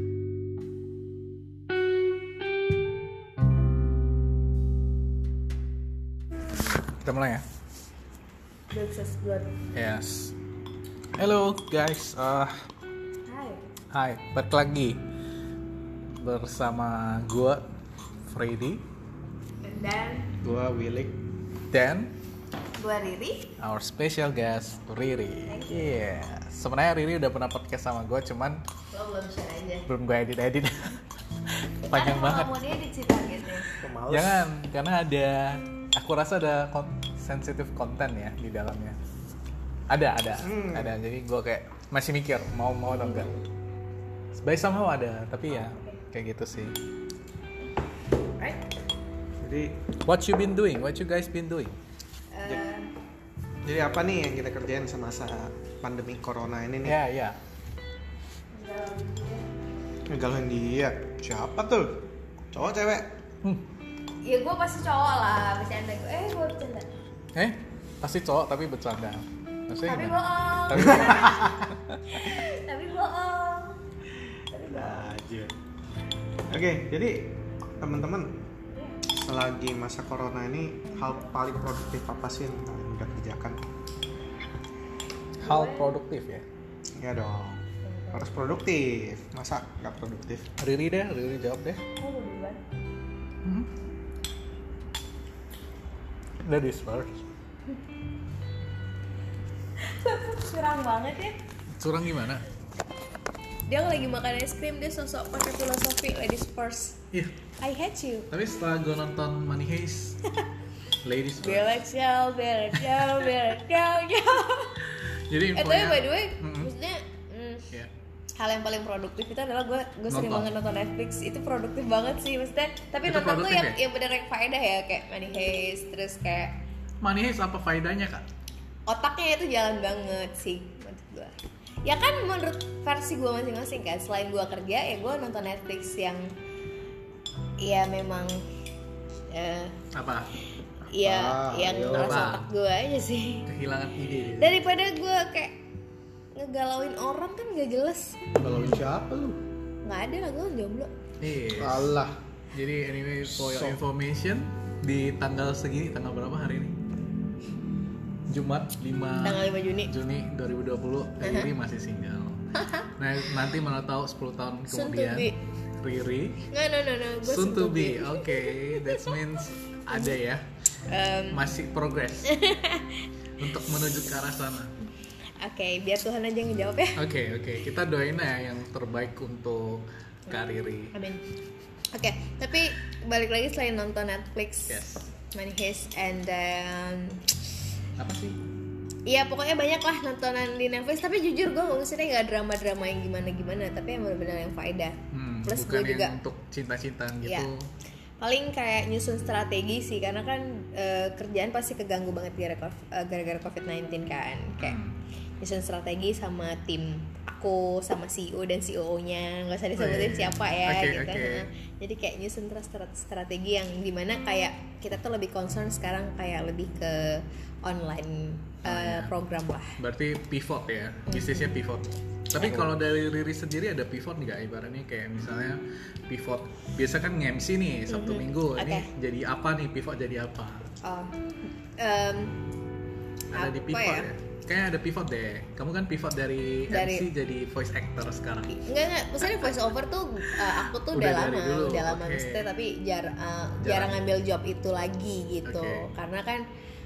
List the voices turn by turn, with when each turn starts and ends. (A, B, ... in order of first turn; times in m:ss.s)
0:07.0-0:07.4 A
0:08.7-0:09.5 B
0:09.7-0:10.4 A
0:11.2-0:12.6 A
0:13.3-0:13.6 B
0:13.9-0:15.0 A
0:16.2-0:17.6 A
0:18.3-0:18.8 A
0:19.6-0:20.3 B
0:20.4-0:21.1 C
0:21.7-0:22.1 A
0:22.8-0:23.5 B
0:23.6-0:28.6 A
0:25.5-0:26.0 B
0:28.9-0:29.9 B
0:29.9-0:31.0 A
0:31.8-0:32.6 A
0:31.8-0:33.7 B
0:33.8-0:39.0 A
0:33.8-0:34.5 C
0:39.9-0:43.3 A
0:40.4-0:41.0 C
0:42.9-0:43.4 B
0:44.3-0:46.8 A
0:45.5-0:46.0 B
0:48.4-0:48.6 B
0:49.4-0:49.8 C
0:50.0-0:51.8 A
0:52.3-0:52.9 B
0:53.6-0:57.0 C
0:56.8-0:57.4 A
0:58.5-0:59.5 B
1:00.1-1:03.1 C
1:04.2-1:06.9 B
1:07.4-1:12.3 A
1:09.8-1:13.9 B
1:14.5-1:14.9 B
1:14.6-1:15.5 C
1:16.5-1:18.4 C
1:19.0-1:23.7 C
1:20.9-1:21.3 B
1:25.4-1:26.4 A
1:25.4-1:25.9 B
1:27.0-1:30.5 C
1:27.8-1:28.2 B
1:30.6-1:31.8 A
1:32.0-1:32.6 B
1:33.4-1:33.7 A
1:36.4-1:37.2 A
1:39.8-1:41.4 B
1:41.8-1:42.4 A
1:43.7-1:47.0 B
1:47.6-1:48.3 B
1:48.3-1:50.2 A
1:51.0-1:51.8 A
1:51.4-1:54.9 B
1:52.8-1:53.3 A
1:55.1-1:56.7 A
1:55.5-1:57.7 B
1:58.4-2:06.6 B
2:00.1-2:00.5 A
2:03.0-2:03.8 A
2:07.0-2:08.2 A
2:08.9-2:16.3 B
2:17.6-2:18.4 B
2:19.3-2:19.8 B
2:19.9-2:20.3 A
2:20.9-2:23.5 B
2:21.0-2:22.3 C
2:21.9-2:22.4 A
2:23.5-2:24.6 A
2:24.4-2:25.5 B
2:26.3-2:28.3 B
2:28.4-2:29.4 C
2:28.4-2:28.8 A
2:29.8-2:30.9 B
2:31.2-2:31.9 A
2:31.6-2:32.2 C
2:32.5-2:36.8 A
2:33.3-2:33.8 C
2:38.3-2:42.4 A
2:39.2-2:39.9 B
2:41.2-2:41.5 B
2:42.6-2:42.9 B
2:43.0-2:46.5 A
2:44.7-2:45.4 B
2:46.5-2:49.2 B
2:47.2-2:50.4 A
2:49.9-2:50.2 B
2:50.9-2:51.4 B
2:51.3-2:52.4 A
2:52.2-2:53.1 B
2:53.4-2:54.8 A
2:55.4-2:57.0 B
2:57.0-3:01.0 A
3:00.9-3:01.3 B
3:01.9-3:07.4 B
3:04.7-3:05.1 A
3:08.0-3:08.4 A
3:09.1-3:16.2 B
3:15.1-3:17.7 A
3:17.2-3:17.5 B
3:18.2-3:24.8 B
3:24.6-3:25.0 A
3:25.4-3:39.8 B
3:29.8-3:31.5 A
3:38.6-3:39.1 A
3:39.8-3:50.7 A
3:41.1-3:41.6 B
3:42.4-3:42.7 C
3:47.9-3:48.9 B
3:50.8-3:52.4 B
3:53.3-3:58.7 A
3:53.3-3:54.1 B
3:56.7-3:57.1 B
3:58.5-4:06.4 B
3:59.2-3:59.7 A
4:00.2-4:02.5 A
4:03.6-4:04.1 A
4:05.5-4:05.9 A